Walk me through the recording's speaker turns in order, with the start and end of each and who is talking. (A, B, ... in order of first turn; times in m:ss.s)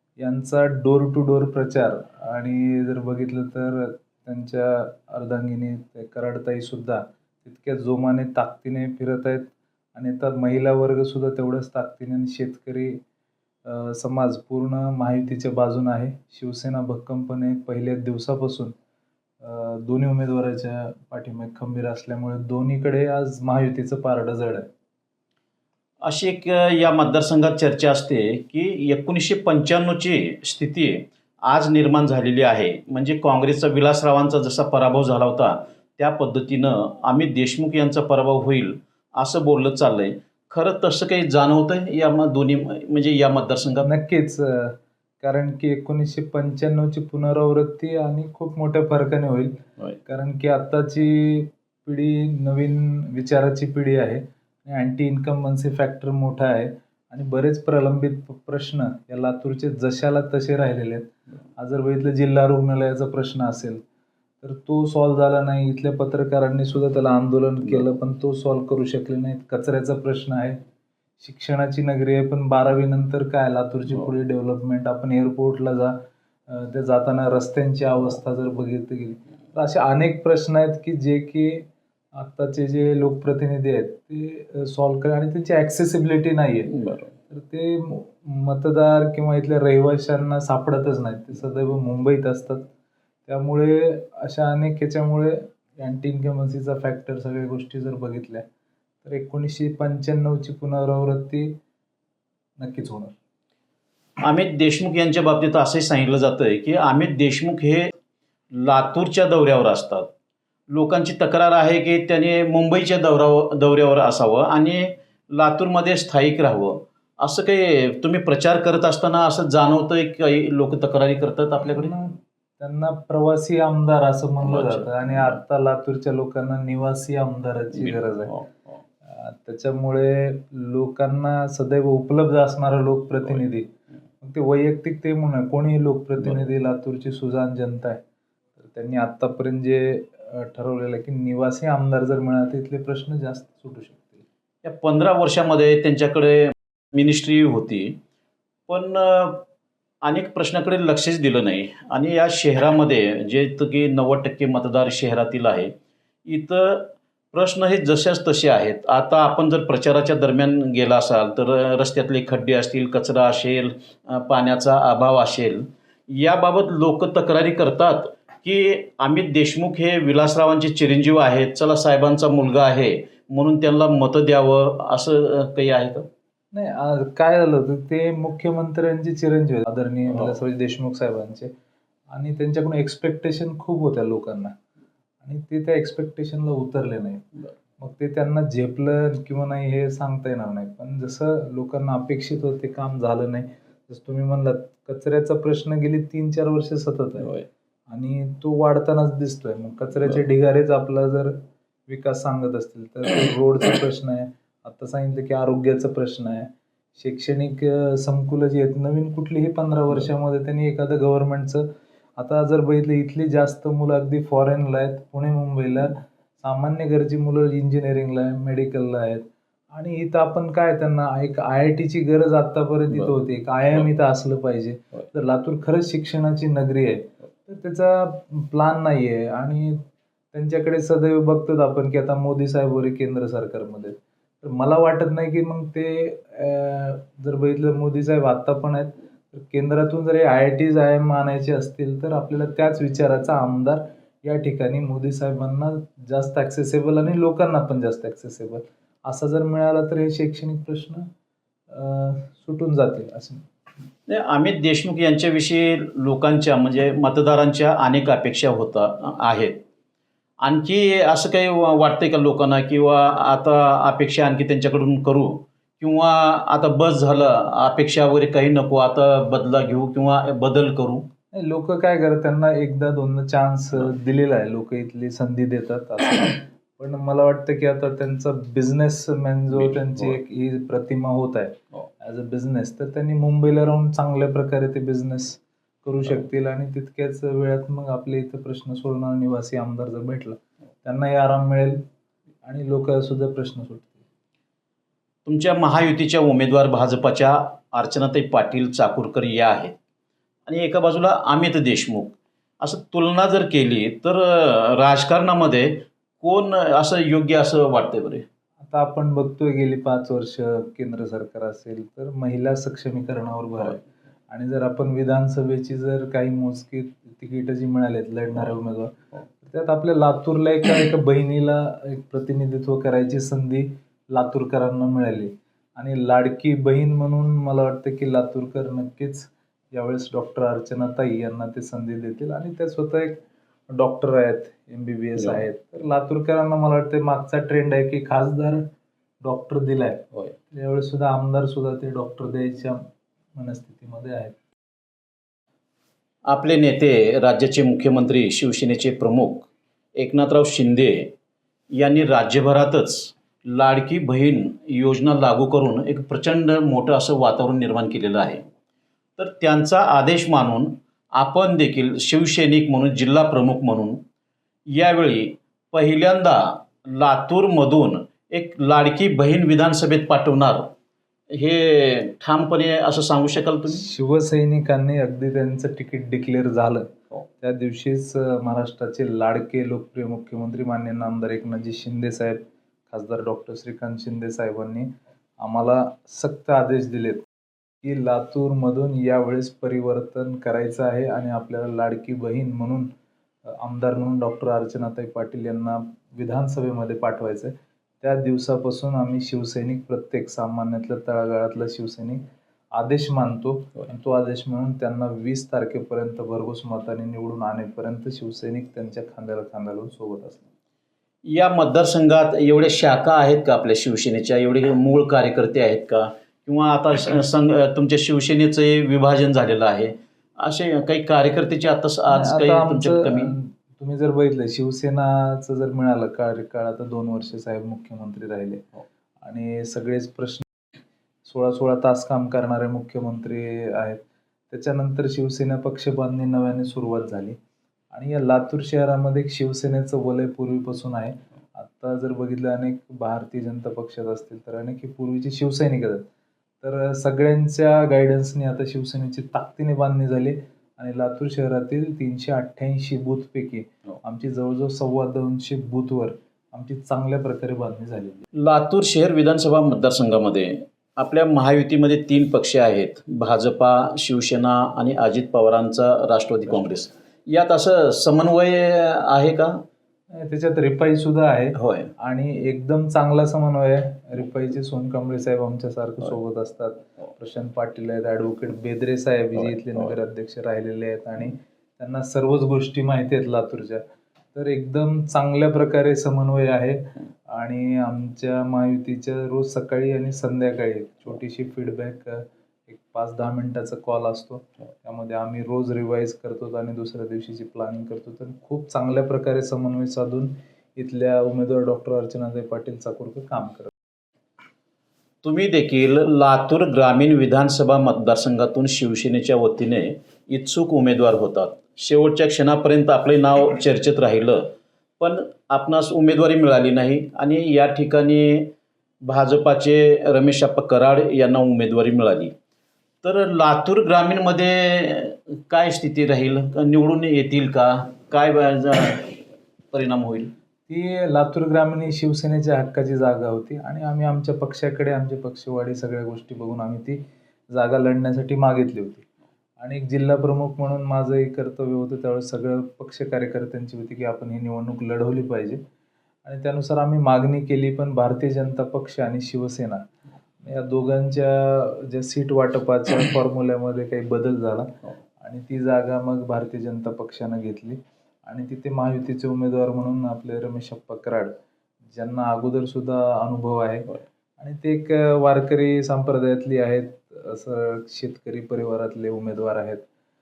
0:00.2-0:13.0 A
0:13.6-0:18.7 A
0:19.4-0:24.7 A
0:26.0-0:43.9 B
0:43.8-1:03.8 A
1:04.4-1:10.6 A
1:11.2-1:26.8 A
1:26.7-1:27.1 B
1:27.3-1:32.6 A
1:33.3-1:38.4 A
1:39.0-1:41.6 A
1:42.6-1:43.1 A
1:44.2-1:48.0 B
1:48.6-1:50.1 B
1:50.7-2:01.9 B
2:01.7-2:08.3 A
2:04.4-2:05.4 B
2:07.7-2:08.7 B
2:09.0-2:18.0 A
2:18.6-2:24.2 A
2:24.6-2:28.0 B
2:28.7-2:29.4 B
2:30.0-2:35.7 B
2:36.2-2:56.1 B
2:56.5-3:01.5 A
3:02.1-3:04.5 A
3:05.2-3:17.3 A
3:17.9-3:31.6 A
3:32.2-4:11.0 A
4:11.7-4:13.4 A
4:14.1-4:19.6 B
4:20.4-4:31.1 B
4:31.3-4:51.8 A
4:52.4-4:54.0 A
4:55.2-4:59.8 B
5:00.5-5:08.2 B
5:08.6-5:38.6 A
5:39.2-5:42.8 A
5:43.4-5:44.4 A
5:46.3-5:51.1 B
5:51.7-5:58.4 B
5:59.2-6:04.0 B
6:04.7-6:10.7 B
6:11.4-6:13.8 B
6:13.7-6:27.2 A
6:27.8-6:32.9 A
6:33.4-6:42.2 A
6:42.7-6:50.5 A
6:51.3-7:03.3 B
7:02.1-7:08.7 A
7:09.2-7:10.4 A
7:11.2-7:17.4 A
7:17.9-7:26.0 A
7:26.6-7:38.3 A
7:38.4-7:49.6 B
7:50.1-8:03.8 A
7:51.6-7:51.9 B
8:04.3-8:23.7 A
8:25.2-8:42.3 B
8:43.0-8:50.3 B
8:50.7-8:59.0 A
8:59.6-9:05.6 A
9:06.2-9:09.8 A
9:10.4-9:21.3 A
9:21.9-9:29.8 A